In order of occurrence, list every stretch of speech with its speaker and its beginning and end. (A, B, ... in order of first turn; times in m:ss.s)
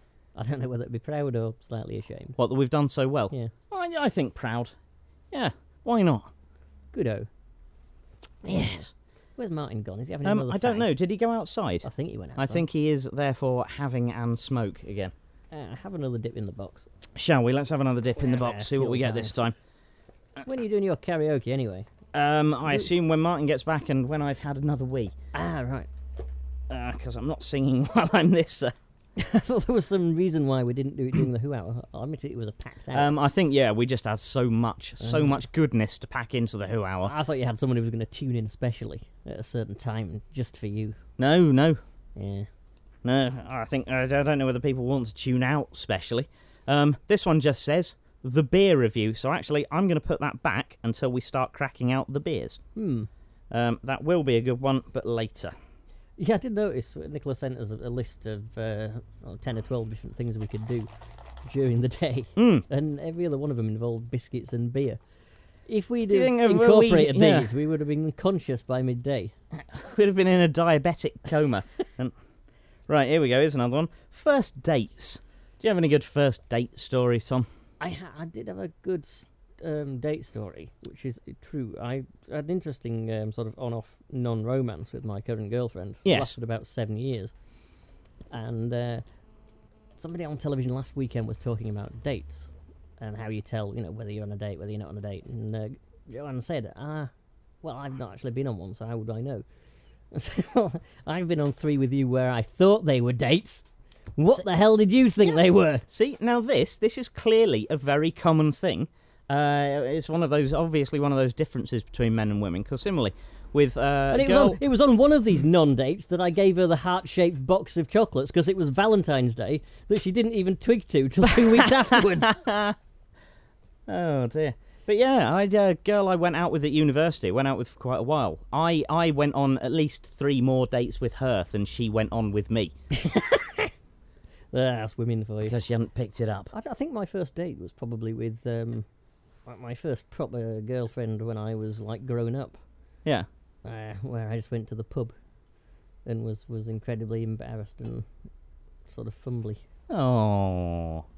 0:00.3-0:02.4 A
0:02.4-0:04.7 B
0:05.3-0:06.3 B
0:06.9-0:07.3 A
0:08.4-0:10.9 A
0:08.4-0:08.9 B
0:10.2-0:15.1 B
0:11.8-0:12.6 A
0:15.5-0:16.8 A
0:17.2-0:19.6 B
0:18.2-0:19.3 A
0:20.4-0:21.9 A
0:22.1-0:25.1 B
0:25.3-0:25.9 A
0:26.7-0:28.7 B
0:29.2-0:33.1 A
0:32.9-0:37.1 B
0:35.0-0:35.4 A
0:37.0-0:41.0 A
0:41.2-0:41.8 B
0:42.2-0:42.5 A
0:43.0-0:52.6 B
0:52.8-0:53.1 A
0:53.5-0:55.5 B
0:56.2-1:00.9 A
1:01.4-1:05.0 A
1:02.4-1:02.6 B
1:05.6-1:09.3 A
1:06.1-1:07.5 B
1:09.5-1:12.1 B
1:12.9-1:17.5 B
1:17.8-1:27.3 A
1:26.0-1:26.3 B
1:28.3-1:29.0 A
1:30.0-1:37.1 A
1:37.6-1:39.4 A
1:40.1-1:43.6 A
1:44.2-1:45.8 A
1:45.9-1:54.6 B
1:54.1-2:02.4 A
2:01.5-2:02.8 B
2:03.9-2:12.7 B
2:12.9-2:13.7 A
2:14.5-2:15.5 A
2:15.4-2:16.5 B
2:16.5-2:18.8 A
2:19.4-2:22.6 A
2:23.6-2:25.1 A
2:26.0-2:28.1 A
2:28.9-2:29.6 A
2:29.9-2:31.0 B